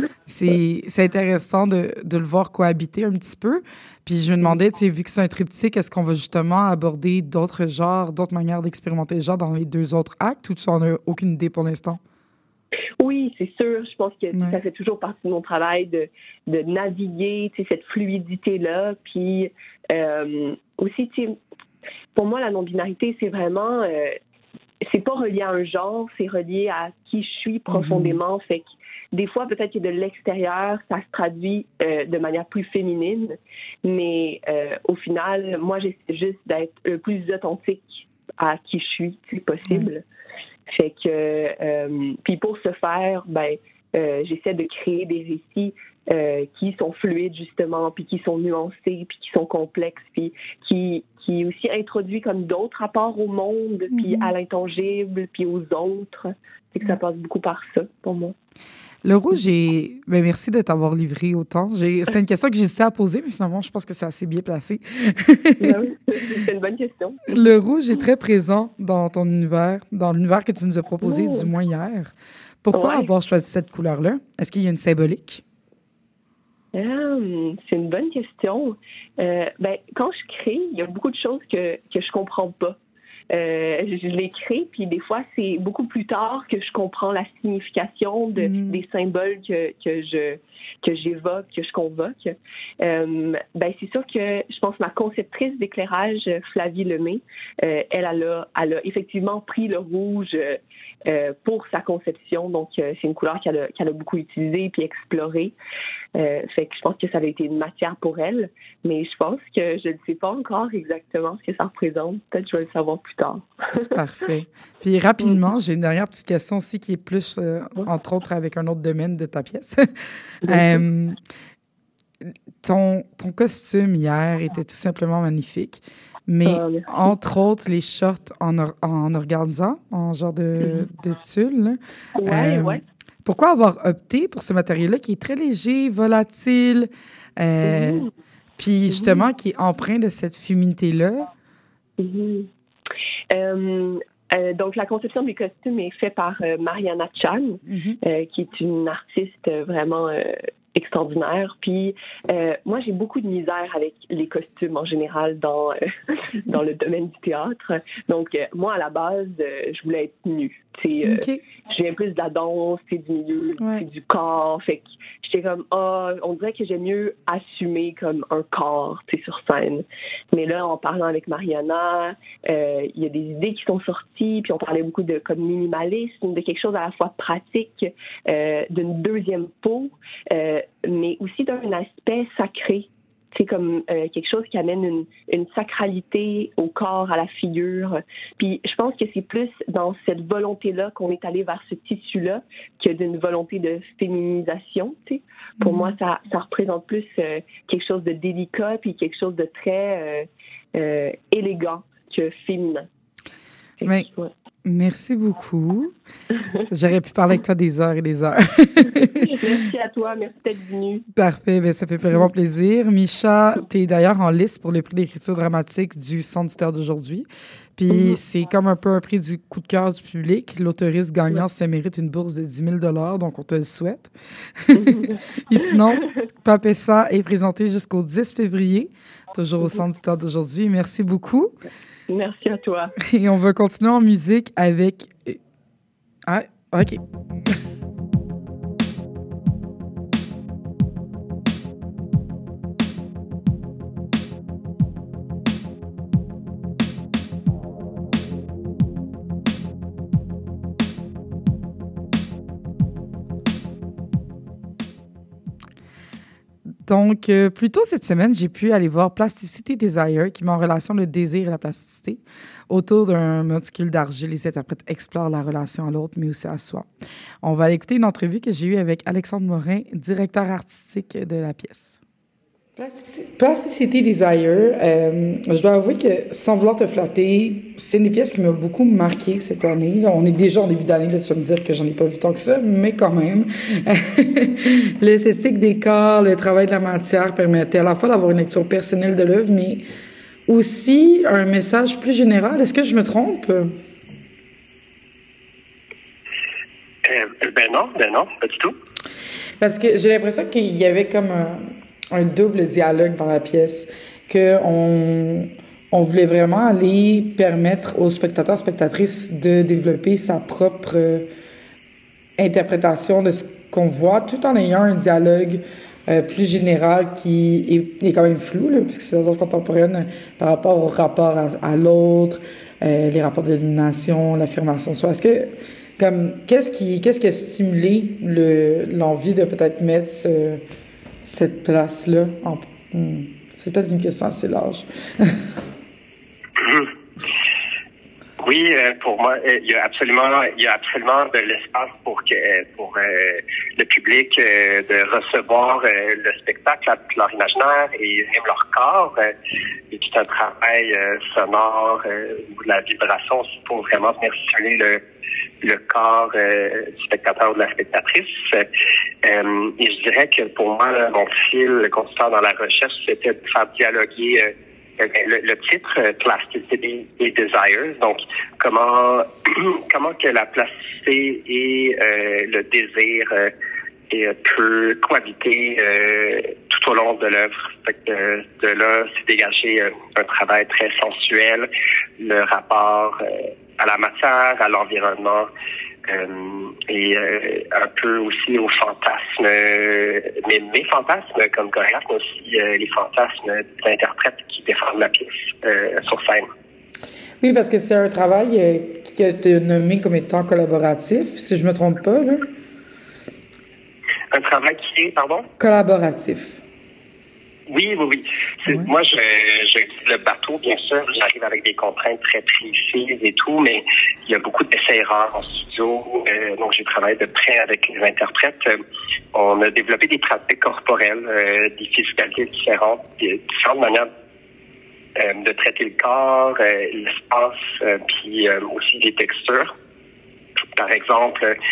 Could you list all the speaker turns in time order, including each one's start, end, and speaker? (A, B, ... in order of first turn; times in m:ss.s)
0:00.3-0:12.0 A
0:13.0-0:21.4 B
0:22.1-0:24.2 B
0:24.8-0:40.0 B
0:27.7-0:28.2 A
0:40.7-0:58.3 B
0:53.9-0:54.3 A
0:59.0-1:05.8 A
1:05.6-1:07.4 B
1:07.3-1:12.1 A
1:11.0-1:11.5 B
1:12.6-1:15.4 A
1:12.7-1:13.1 B
1:16.7-1:22.8 B
1:23.3-1:45.5 B
1:28.4-1:28.8 A
1:46.2-1:54.0 B
1:53.8-2:01.2 A
2:00.5-2:00.7 B
2:02.6-2:18.0 A
2:06.4-2:06.9 B
2:12.2-2:12.8 B
2:17.6-2:18.1 B
2:18.6-2:21.3 A
2:18.9-2:19.2 B
2:22.0-2:22.5 B
2:23.3-3:22.9 B
2:27.7-2:28.0 A
2:41.0-2:41.4 A
3:15.6-3:15.9 A
3:23.8-3:24.3 B
3:24.6-3:25.9 A
3:26.7-3:29.3 A
3:29.2-3:31.0 B
3:31.1-3:51.5 A
3:37.9-3:38.2 B
3:44.7-3:46.0 B
3:52.1-3:52.9 B
3:53.0-3:55.4 A
3:56.2-3:57.0 A
4:16.8-4:26.9 A
4:27.4-4:32.0 A
4:32.8-4:49.8 A
4:50.5-4:53.7 A
4:57.0-4:58.8 C
4:59.6-5:11.3 A
5:12.4-5:30.6 A
5:31.2-5:35.5 A
5:36.6-5:36.9 C
5:38.4-5:49.3 C
5:49.9-5:55.0 C
5:55.6-5:58.7 C
5:59.2-6:13.5 C
6:14.1-6:21.7 C
6:22.2-6:25.5 C
6:26.1-6:36.5 C
6:37.4-6:42.5 A
6:44.3-6:45.5 C
6:45.6-6:46.6 A
6:47.7-6:58.8 C
6:59.3-7:04.1 C
7:05.2-7:09.7 C
7:10.8-7:11.5 C